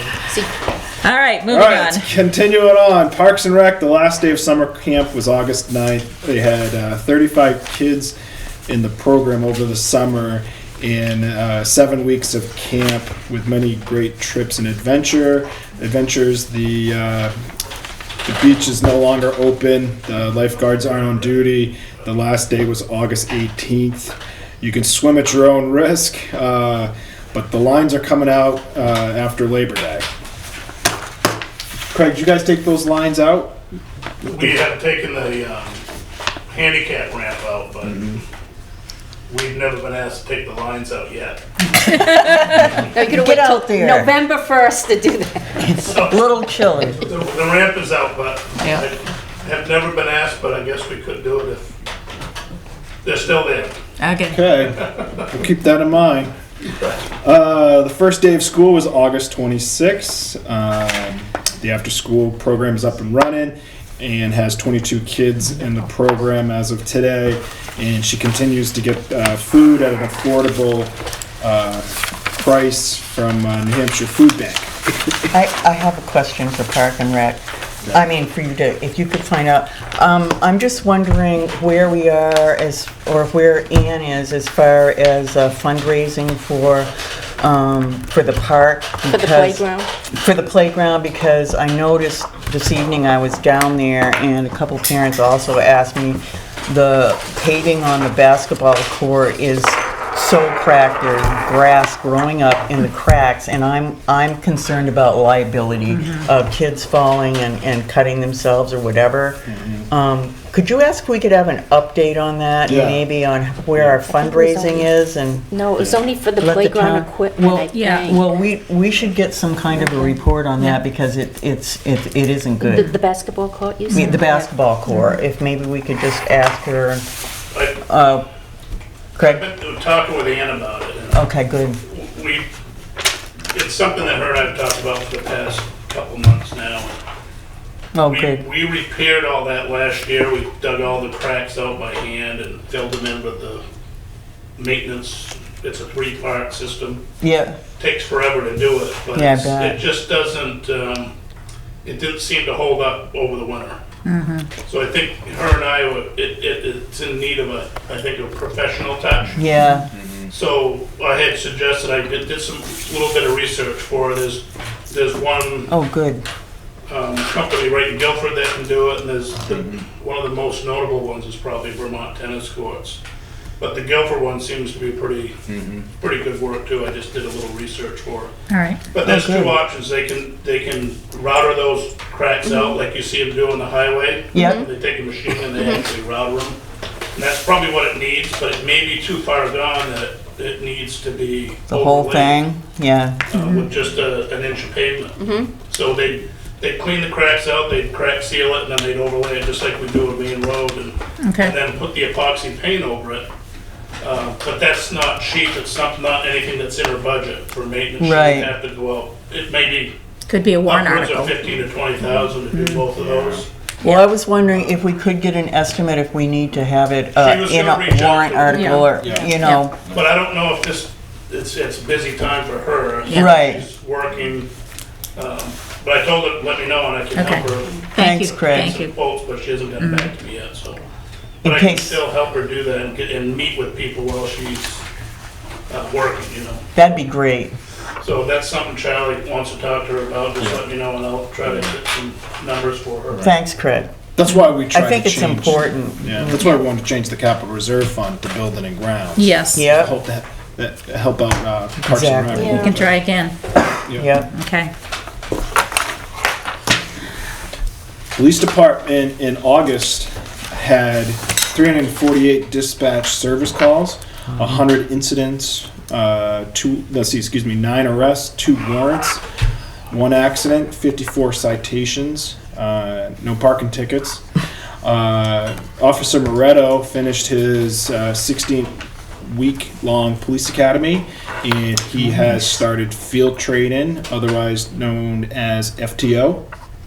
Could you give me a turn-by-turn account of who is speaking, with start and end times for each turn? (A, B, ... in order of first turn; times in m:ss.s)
0:00.3-0:00.5 A
0:01.0-0:02.1 B
0:01.5-0:08.2 C
0:08.7-0:17.3 C
0:18.2-0:30.1 C
0:31.9-0:33.6 C
0:34.2-0:34.5 C
0:34.2-0:35.8 D
0:36.5-0:38.2 D
0:37.8-0:38.2 C
0:39.3-0:41.4 D
0:42.9-0:45.6 A
0:43.1-0:44.1 E
0:45.6-0:47.0 E
0:45.7-0:46.4 D
0:47.0-0:51.7 D
0:53.0-0:53.8 D
0:54.0-0:54.4 B
0:54.3-0:56.3 C
0:57.2-1:15.3 C
1:15.3-1:55.5 E
1:29.1-1:29.9 A
1:45.9-1:46.3 B
1:49.5-1:49.9 C
1:52.7-1:53.0 C
1:54.1-1:55.0 A
1:55.5-1:58.2 A
1:55.8-1:56.1 C
1:56.4-2:02.9 E
1:57.7-1:58.1 B
1:59.8-2:00.1 A
2:02.6-2:04.5 A
2:03.9-2:07.1 E
2:03.9-2:04.2 B
2:04.9-2:05.1 B
2:07.5-2:07.8 D
2:07.8-2:08.2 E
2:09.2-2:09.4 E
2:09.2-2:11.2 D
2:11.1-2:11.8 E
2:11.8-2:12.5 D
2:13.5-2:16.9 D
2:17.9-2:18.4 E
2:18.1-2:23.6 D
2:24.6-2:27.0 D
2:27.2-2:27.6 E
2:27.8-2:31.1 D
2:29.2-2:29.8 E
2:31.8-2:33.8 D
2:34.0-2:34.5 B
2:34.6-2:39.4 D
2:39.4-2:39.9 E
2:39.9-2:40.3 C
2:40.3-2:45.7 D
2:45.7-2:46.2 E
2:46.9-2:53.0 D
2:49.5-2:49.8 C
2:53.6-2:58.3 D
2:55.5-2:55.8 C
2:58.5-2:58.8 B
2:58.9-3:06.6 D
2:59.0-2:59.6 E
3:02.5-3:02.8 A
3:04.3-3:04.6 E
3:04.4-3:04.7 A
3:07.2-3:12.4 D
3:11.7-3:13.2 E
3:13.3-3:23.3 D
3:15.2-3:15.5 A
3:21.2-3:21.5 B
3:24.0-3:30.0 D
3:28.0-3:28.5 E
3:30.3-3:31.3 B
3:30.6-3:33.5 D
3:32.0-3:32.4 C
3:32.5-3:32.8 B
3:33.0-3:33.4 C
3:33.8-3:39.8 E
3:37.2-3:38.9 D
3:38.5-3:39.7 B
3:39.0-3:39.4 C
3:39.9-3:44.5 D
3:43.1-3:43.6 E
3:45.2-3:47.8 D
3:47.1-3:49.0 B
3:48.0-3:48.8 E
3:48.5-3:50.8 D
3:49.8-3:50.1 B
3:51.4-3:52.0 E
3:51.4-3:54.8 D
3:55.7-3:56.6 D
3:56.8-3:57.5 E
3:58.0-4:03.3 D
4:03.2-4:03.9 E
4:04.2-4:13.1 C
4:04.7-4:06.5 E
4:09.2-4:09.7 B
4:09.5-4:09.9 E
4:11.8-4:12.7 E
4:12.4-4:12.7 A
4:12.5-4:13.3 B
4:13.8-4:14.2 C
4:14.0-4:14.3 E
4:14.3-4:14.7 B
4:18.1-4:29.2 C
4:29.9-4:34.2 C
4:34.8-4:38.7 C
4:39.2-4:46.4 C